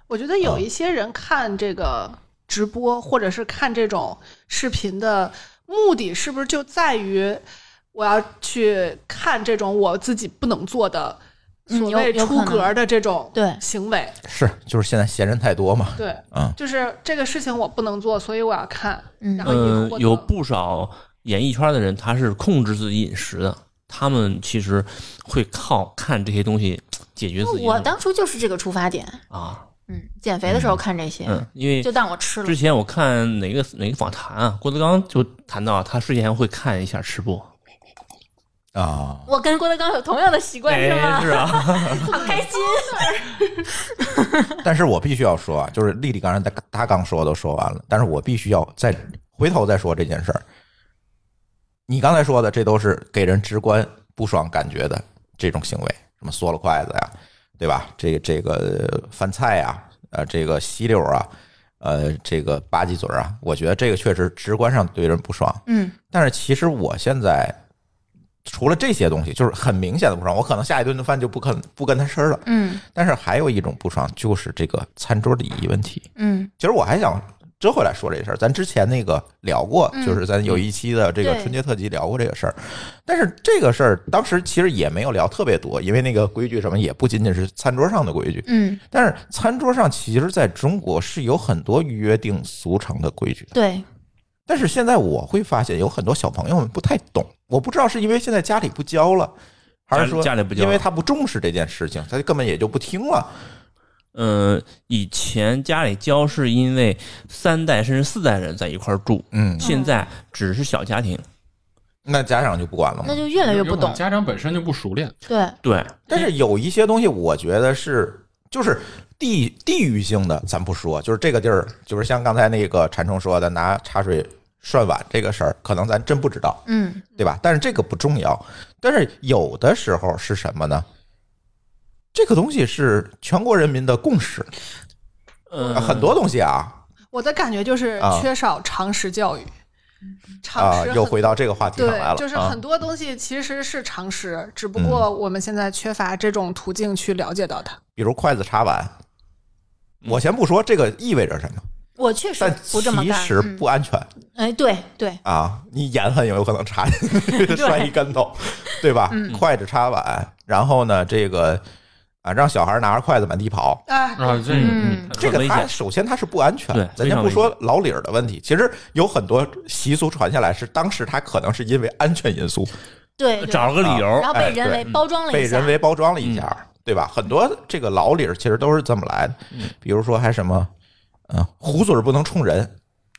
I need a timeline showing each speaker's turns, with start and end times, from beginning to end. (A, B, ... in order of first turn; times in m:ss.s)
0:00.1-0:14.2 A
0:11.7-0:12.7 B
0:13.3-0:13.6 B
0:14.2-0:16.6 C
0:16.0-0:20.3 A
0:19.2-0:19.5 B
0:19.4-0:27.9 D
0:27.4-0:29.2 B
0:29.3-0:29.6 D
0:29.9-0:32.6 B
0:30.5-0:30.8 C
0:31.3-0:31.9 D
0:32.4-0:37.5 D
0:38.7-0:39.3 C
0:39.3-0:43.4 B
0:40.7-0:42.4 D
0:42.0-0:43.6 A
0:44.0-0:44.6 B
0:44.6-0:50.4 C
0:51.9-1:01.3 C
1:01.8-1:07.6 C
1:05.6-1:05.9 B
1:08.4-1:16.0 C
1:12.4-1:12.8 B
1:16.2-1:16.5 B
1:16.6-1:33.5 C
1:19.9-1:20.2 B
1:21.2-1:21.5 B
1:28.4-1:28.8 B
1:33.5-1:33.8 B
1:34.5-1:39.3 C
1:39.9-1:43.3 C
1:39.9-1:40.8 D
1:44.1-1:51.2 D
1:49.3-1:49.7 C
1:49.6-1:49.9 B
1:52.0-1:53.2 C
1:53.0-1:54.0 B
1:53.3-1:55.1 E
1:55.3-1:55.6 B
1:55.6-1:56.3 D
1:56.1-2:06.6 C
2:06.6-2:07.0 B
2:07.2-2:10.8 C
2:12.1-2:14.5 C
2:15.5-2:16.2 D
2:15.6-2:16.0 A
2:15.7-2:16.8 C
2:17.1-2:19.5 A
2:18.0-2:18.3 C
2:20.4-2:27.8 A
2:20.6-2:22.6 C
2:24.8-2:25.1 C
2:28.0-2:28.9 C
2:30.0-2:31.6 C
2:32.0-2:33.6 B
2:32.4-2:34.1 C
2:34.3-2:35.2 B
2:35.2-2:41.6 C
2:37.5-2:37.9 B
2:39.1-2:39.4 B
2:42.2-2:43.8 C
2:43.9-2:44.5 A
2:44.2-2:45.6 E
2:44.5-2:45.7 D
2:44.6-2:45.1 B
2:45.1-2:52.7 C
2:46.7-2:47.5 D
2:53.2-2:55.8 B
2:53.4-2:55.0 D
2:53.8-3:00.7 C
2:56.2-2:56.5 D
3:01.3-3:02.7 C